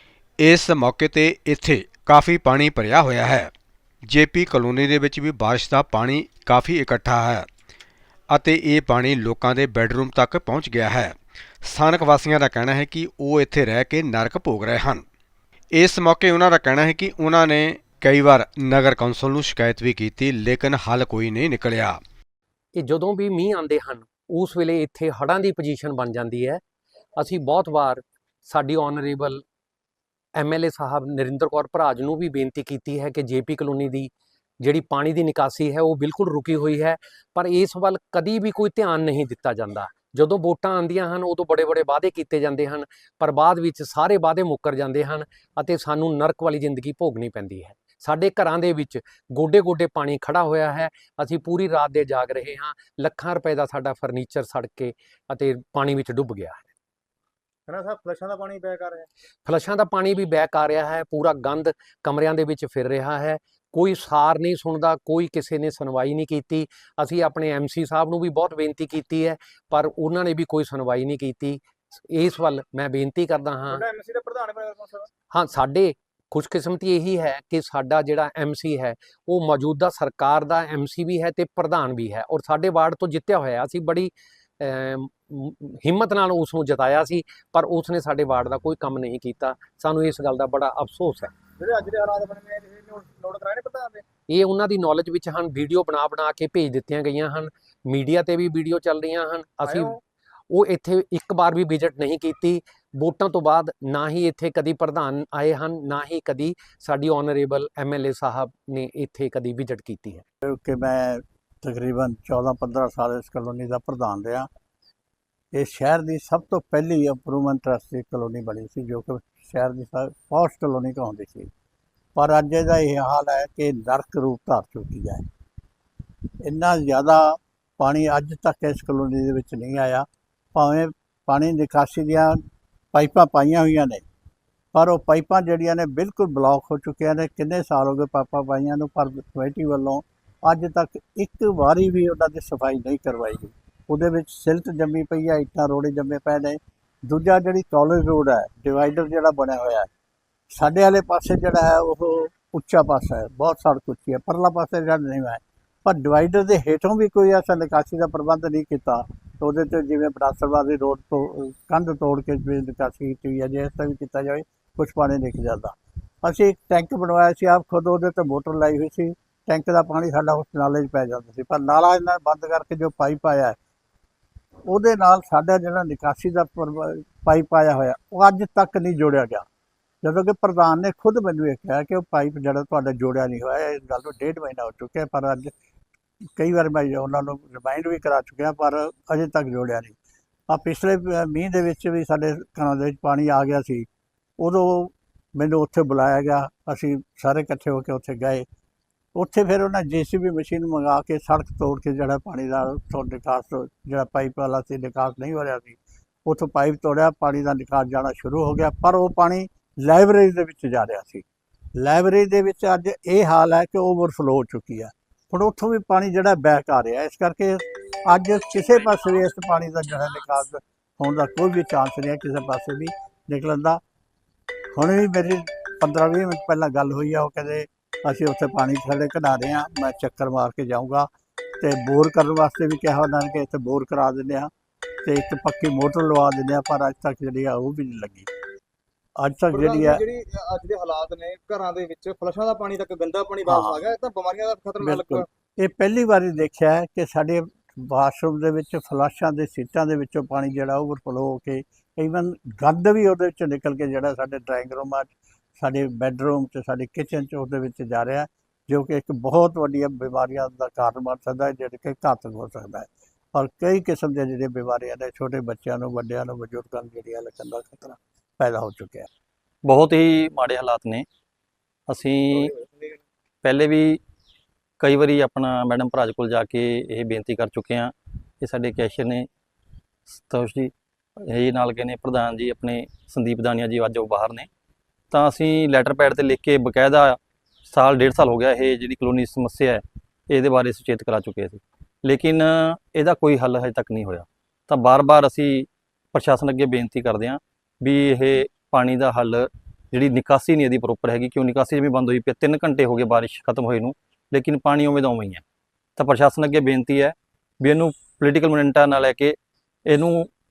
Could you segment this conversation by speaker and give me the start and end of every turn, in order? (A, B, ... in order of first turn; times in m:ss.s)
0:00.4-0:03.5 A
0:04.0-0:07.5 A
0:08.3-0:15.0 A
0:15.7-0:22.0 A
0:22.7-0:26.6 B
0:27.2-0:29.4 B
0:30.4-0:56.7 B
0:57.7-0:59.1 C
0:59.4-1:13.8 B
1:13.7-1:15.1 C
1:15.3-1:31.3 B
1:31.6-1:34.0 C
1:34.3-1:40.0 B
1:39.6-1:40.0 C
1:40.5-1:50.2 B
1:50.4-1:54.5 D
1:55.5-2:01.5 D
2:02.2-2:05.2 D
2:06.4-2:12.4 D
2:12.9-2:14.0 D
2:14.7-2:29.9 D
2:30.5-2:53.6 D
2:54.7-2:59.4 D
3:00.0-3:05.5 D
3:06.4-3:09.9 D
3:10.5-3:13.9 D
3:14.4-3:18.4 D
3:19.1-3:31.2 D
3:31.8-3:43.8 D
3:44.7-3:54.5 D
3:55.0-3:58.3 D
3:59.2-4:00.0 D
3:59.5-4:05.2 C
4:03.5-4:03.8 D
4:04.8-4:29.1 D
4:29.6-4:31.0 E
4:31.9-4:32.5 E
4:32.3-4:32.9 C
4:33.4-4:34.0 E
4:34.8-4:39.3 E
4:40.1-4:40.7 E
4:41.3-4:44.5 E
4:45.1-5:05.4 E
5:06.0-5:09.3 E
5:09.9-5:10.3 E